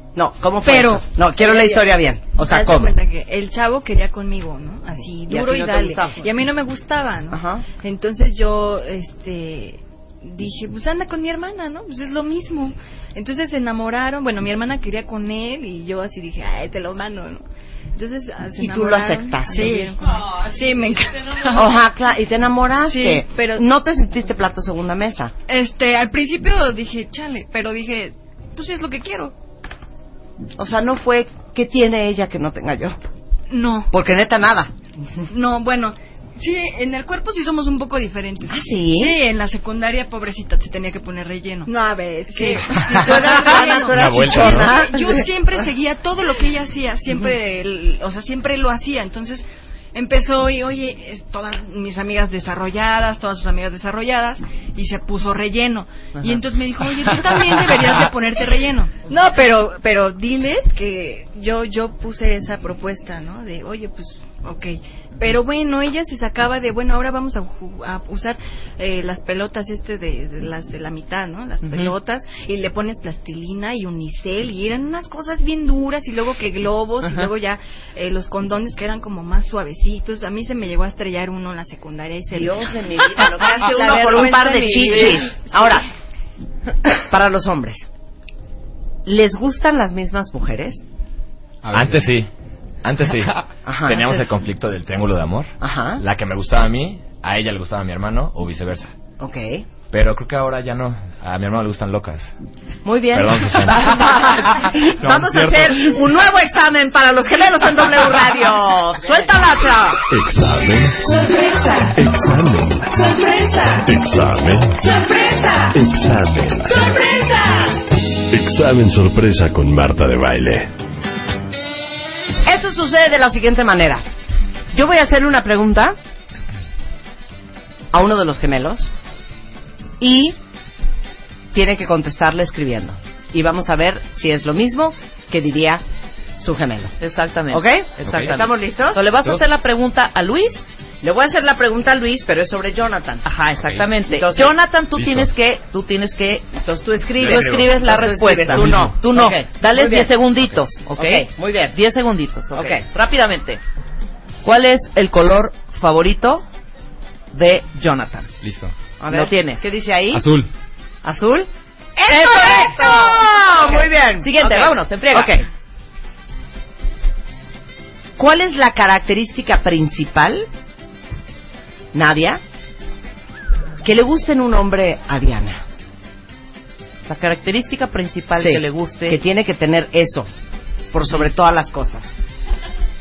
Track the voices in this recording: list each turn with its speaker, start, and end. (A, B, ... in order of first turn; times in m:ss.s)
0:00.1-0:03.0 A
0:00.6-0:17.4 B
0:05.3-0:06.2 A
0:05.3-0:05.9 C
0:07.3-0:07.6 A
0:17.9-0:21.8 B
0:18.6-0:19.9 A
0:19.6-0:21.7 C
0:21.5-0:25.3 A
0:22.8-0:23.6 B
0:25.5-0:29.3 B
0:30.6-0:33.0 A
0:33.5-0:33.9 B
0:33.9-0:35.2 A
0:35.3-1:25.8 B
0:38.4-0:39.2 A
0:42.7-0:45.3 A
0:44.0-0:44.7 D
0:56.1-0:56.4 C
1:11.6-1:11.9 C
1:17.0-1:17.3 C
1:22.3-1:25.9 A
1:24.8-1:25.2 C
1:26.8-1:27.9 A
1:29.0-1:30.8 A
1:31.6-1:32.1 E
1:31.7-1:32.3 D
1:32.8-1:38.9 D
1:33.6-1:34.2 A
1:35.6-1:36.0 A
1:39.2-1:39.6 A
1:39.9-1:42.3 D
1:42.8-1:50.0 A
1:43.1-1:44.1 D
1:45.0-1:45.9 E
1:50.1-1:53.1 F
1:53.7-1:54.8 F
1:55.6-1:57.1 F
1:58.3-2:00.7 F
2:02.4-2:04.0 A
2:04.7-2:06.0 A
2:07.9-2:08.9 A
2:10.0-2:10.4 A
2:11.5-2:15.8 A
2:16.4-2:16.9 A
2:17.0-2:20.7 C
2:17.5-2:19.0 A
2:21.0-2:23.2 A
2:23.2-2:26.4 C
2:23.6-2:23.9 E
2:24.0-2:24.5 A
2:25.0-2:25.3 E
2:26.5-2:31.8 A
2:27.2-2:33.6 C
2:27.3-2:27.6 D
2:28.5-2:28.9 E
2:32.5-2:32.8 A
2:34.4-2:36.4 C
2:37.3-2:38.3 C
2:38.4-2:38.7 E
2:39.0-2:40.2 A
2:39.1-2:39.6 C
2:40.1-2:40.5 E
2:41.0-2:45.4 A
2:42.0-2:45.4 C
2:48.2-2:50.5 A
2:51.9-2:52.4 A
2:53.8-2:55.6 A
2:57.0-2:59.2 C
2:58.3-3:00.3 A
3:00.9-3:02.1 A